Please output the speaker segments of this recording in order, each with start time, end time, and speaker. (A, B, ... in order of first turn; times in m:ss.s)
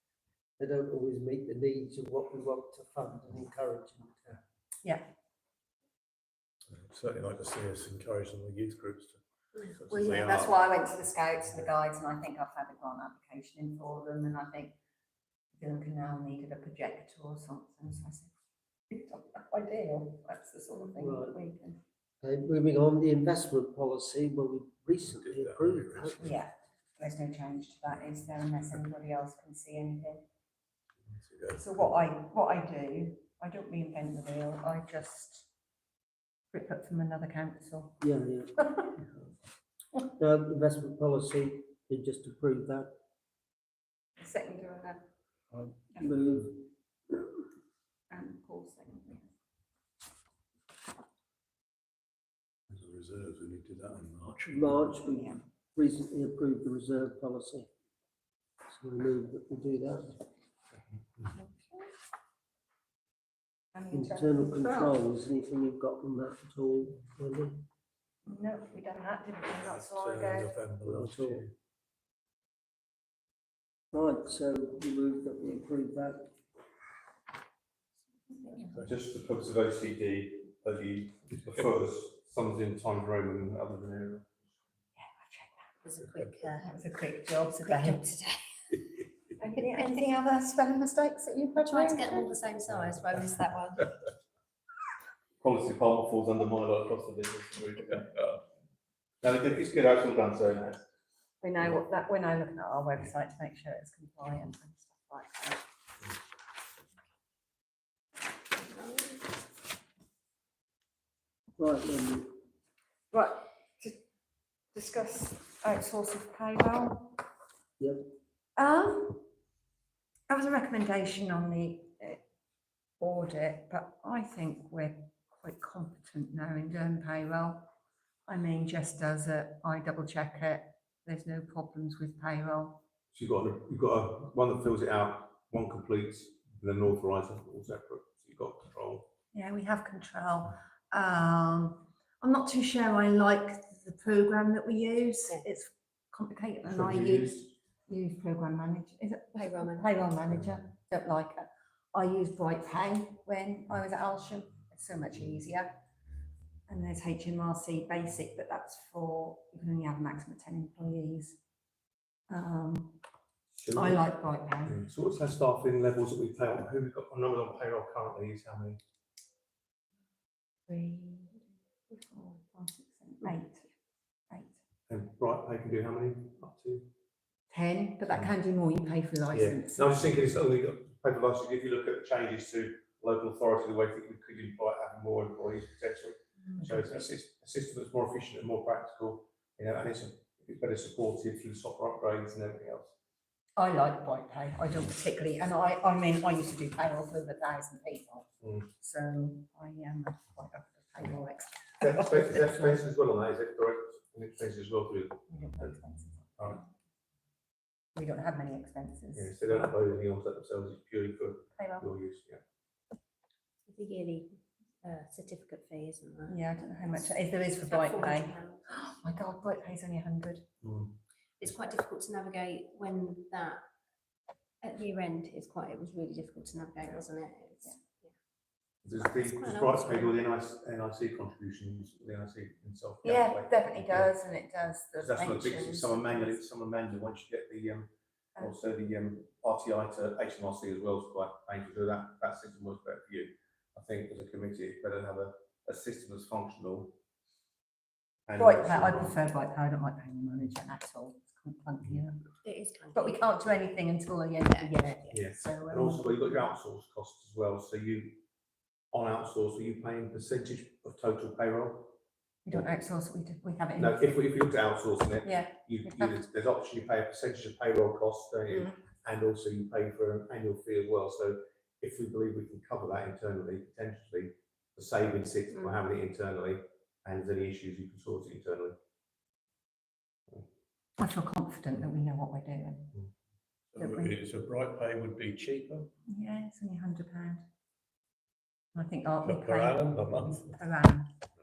0:00.6-0:04.4 A
0:06.7-0:10.6 B
0:09.9-0:14.8 C
0:15.6-0:18.3 C
0:18.9-0:21.8 C
0:20.8-0:21.4 A
0:22.2-0:26.3 A
0:25.0-0:26.3 B
0:26.2-0:30.2 C
0:31.1-0:31.9 B
0:31.6-0:35.5 C
0:36.5-0:38.0 C
0:38.0-0:38.7 A
0:40.1-0:42.9 A
0:44.2-0:45.0 C
0:46.0-0:46.7 A
0:48.1-0:49.3 C
0:52.7-0:54.9 B
0:54.5-0:57.7 A
0:55.0-0:55.4 C
0:58.7-1:00.2 A
1:01.3-1:01.9 C
1:03.7-1:04.8 C
1:03.9-1:07.6 A
1:04.6-1:04.9 D
1:08.2-1:10.6 C
1:09.6-1:11.5 B
1:10.8-1:11.4 A
1:13.9-1:16.3 A
1:18.3-1:18.7 C
1:18.6-1:18.9 B
1:18.8-1:24.3 E
1:25.0-1:25.7 C
1:25.8-1:26.8 D
1:26.6-1:28.1 C
1:27.7-1:28.7 D
1:29.4-1:32.4 C
1:29.5-1:30.0 D
1:31.6-1:33.9 D
1:35.4-1:38.2 E
1:39.2-1:40.8 E
1:41.4-1:45.6 C
1:51.6-1:52.4 A
1:53.1-1:54.0 C
1:54.7-1:57.2 C
1:57.8-1:58.0 A
1:58.6-1:59.3 C
2:00.3-2:02.2 C
2:03.0-2:07.7 C
2:08.3-2:12.8 C
2:13.1-2:19.1 E
2:19.3-2:35.7 C
2:26.6-2:27.5 E
2:29.3-2:30.2 D
2:36.7-2:41.4 C
2:42.3-2:43.0 C
2:43.5-2:44.1 E
2:43.7-2:44.8 C
2:44.6-2:48.8 E
2:50.7-2:53.7 C
2:54.3-2:54.6 C
2:54.9-2:56.9 E
2:57.5-3:00.1 C
2:59.3-3:12.9 E
3:06.6-3:06.9 C
3:13.6-3:18.3 C
3:18.4-3:18.7 E
3:18.8-3:22.9 C
3:21.8-3:25.8 E
3:25.3-3:26.5 C
3:26.4-3:26.6 E
3:28.0-3:29.7 C
3:29.1-3:32.4 E
3:31.5-3:31.9 C
3:33.7-3:38.7 D
3:36.3-3:40.5 C
3:40.6-3:41.0 E
3:41.4-3:43.6 D
3:44.6-3:48.1 D
3:48.8-3:54.1 E
3:49.0-3:50.2 D
3:53.0-3:56.4 C
3:55.0-4:07.0 E
4:08.3-4:09.2 E
4:08.4-4:12.3 C
4:12.4-4:13.5 D
4:12.9-4:16.4 C
4:14.4-4:14.7 D
4:15.1-4:18.2 E
4:18.9-4:22.0 E
4:22.4-4:24.2 C
4:23.8-4:38.8 E
4:25.2-4:26.2 C
4:41.0-4:43.0 C
4:43.7-4:45.9 B
4:43.8-4:44.1 C
4:46.1-4:47.4 C
4:48.7-4:51.1 C
4:49.2-4:50.5 B